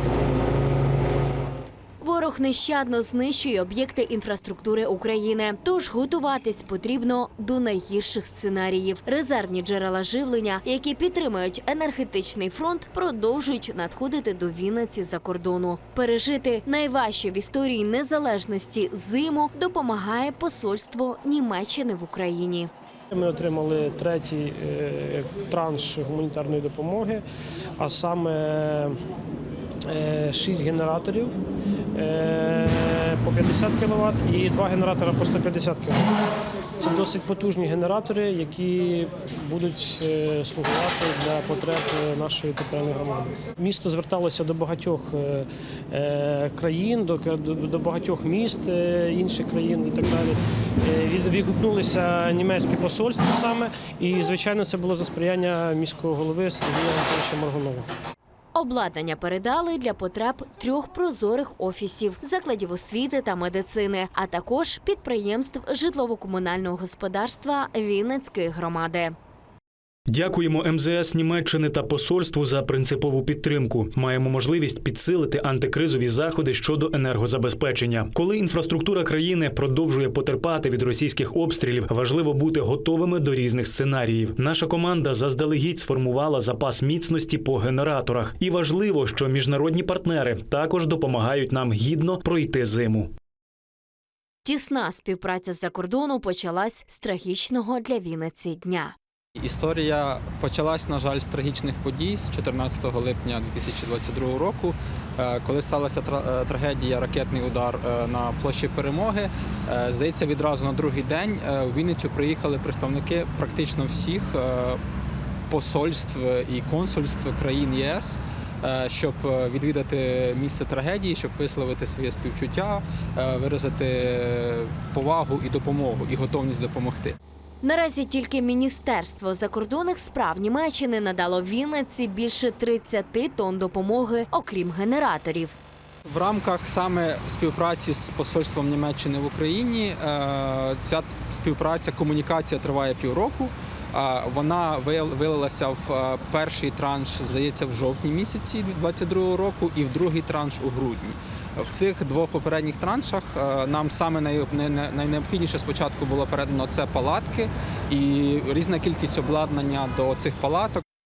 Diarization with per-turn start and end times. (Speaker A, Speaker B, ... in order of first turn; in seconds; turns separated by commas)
Speaker A: 2.0-22.7, Speaker B: 23.1-27.2, Speaker B: 27.8-29.0, Speaker B: 29.9-31.4, Speaker B: 31.9-36.2, Speaker B: 36.8-57.9, Speaker A: 58.5-69.2, Speaker C: 70.1-93.1, Speaker A: 94.5-99.0, Speaker D: 99.4-114.8, Speaker D: 115.5-127.2, Speaker A: 127.6-135.6, Speaker D: 136.1-160.8